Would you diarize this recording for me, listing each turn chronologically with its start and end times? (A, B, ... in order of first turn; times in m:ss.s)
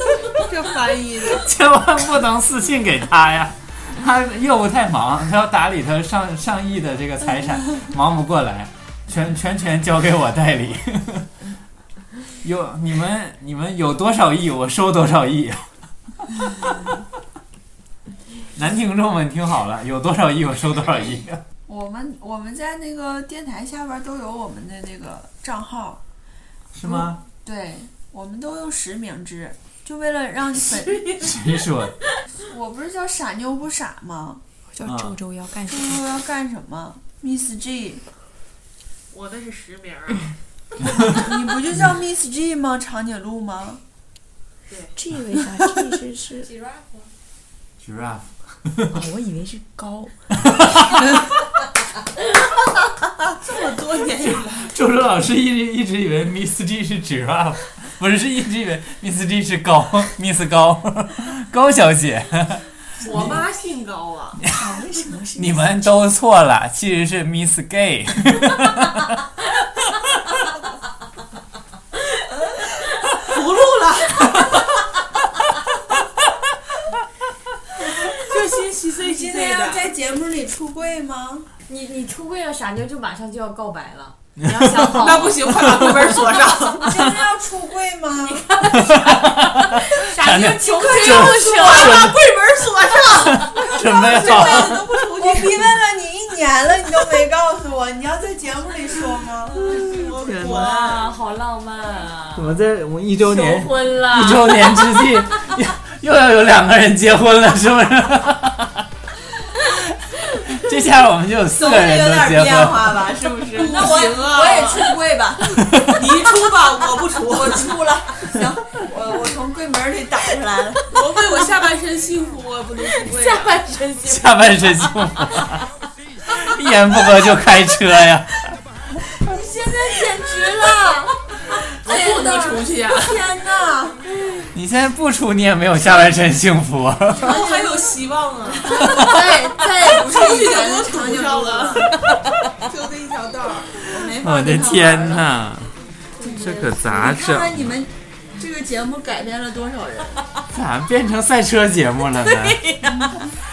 0:00.5-0:01.4 A
0:01.3-0:11.3 B
0:12.4-0:15.7 B
0:18.5-0:21.4 B
0:21.7-0:26.0 A
0:26.7-0:27.2 B
0:26.9-0:31.3 A
0:31.2-0:32.0 B
0:32.5-0:34.4 A
0:34.7-0:36.0 C
0:34.8-0:35.2 B
0:35.7-0:38.0 A
0:39.1-0:40.4 D
0:41.0-0:43.8 A
0:44.7-0:44.9 D
0:45.0-0:46.5 C
0:46.5-0:47.0 E
0:47.8-0:49.0 B
0:48.9-0:50.3 C
0:53.4-0:54.7 D
0:54.6-1:03.4 B
1:03.0-1:04.4 D
1:04.5-1:06.1 C
1:05.4-1:09.0 B
1:13.2-1:14.4 D
1:18.1-1:19.9 D
1:19.0-1:21.5 A
1:21.7-1:25.6 E
1:24.4-1:24.9 B
1:24.8-1:27.0 D
1:26.7-1:28.5 A
1:28.2-1:32.2 E
1:28.7-1:32.2 B
1:30.6-1:32.0 A
1:30.8-1:35.7 D
1:33.1-1:35.0 B
1:34.0-1:39.7 A
1:39.6-1:41.1 D
1:40.0-1:42.6 E
1:40.3-1:41.0 A
1:42.4-1:48.8 B
1:43.2-1:45.3 E
1:50.2-1:53.1 B
1:51.5-1:55.8 A
1:53.5-1:54.9 D
1:55.9-1:57.9 D
1:57.1-2:01.2 A
2:00.9-2:03.6 D
2:03.1-2:04.9 E
2:04.0-2:05.6 B
2:06.3-2:08.5 B
2:09.2-2:11.1 A
2:11.8-2:13.3 D
2:11.8-2:14.0 A
2:14.1-2:14.5 E
2:14.5-2:17.4 B
2:17.2-2:19.1 D
2:17.3-2:17.6 A
2:18.6-2:21.9 A
2:18.9-2:19.2 B
2:19.9-2:22.0 D
2:22.6-2:23.9 D
2:23.8-2:25.4 A
2:24.2-2:25.7 B
2:26.2-2:30.2 A
2:26.3-2:27.8 B
2:30.5-2:32.7 B
2:32.2-2:33.2 E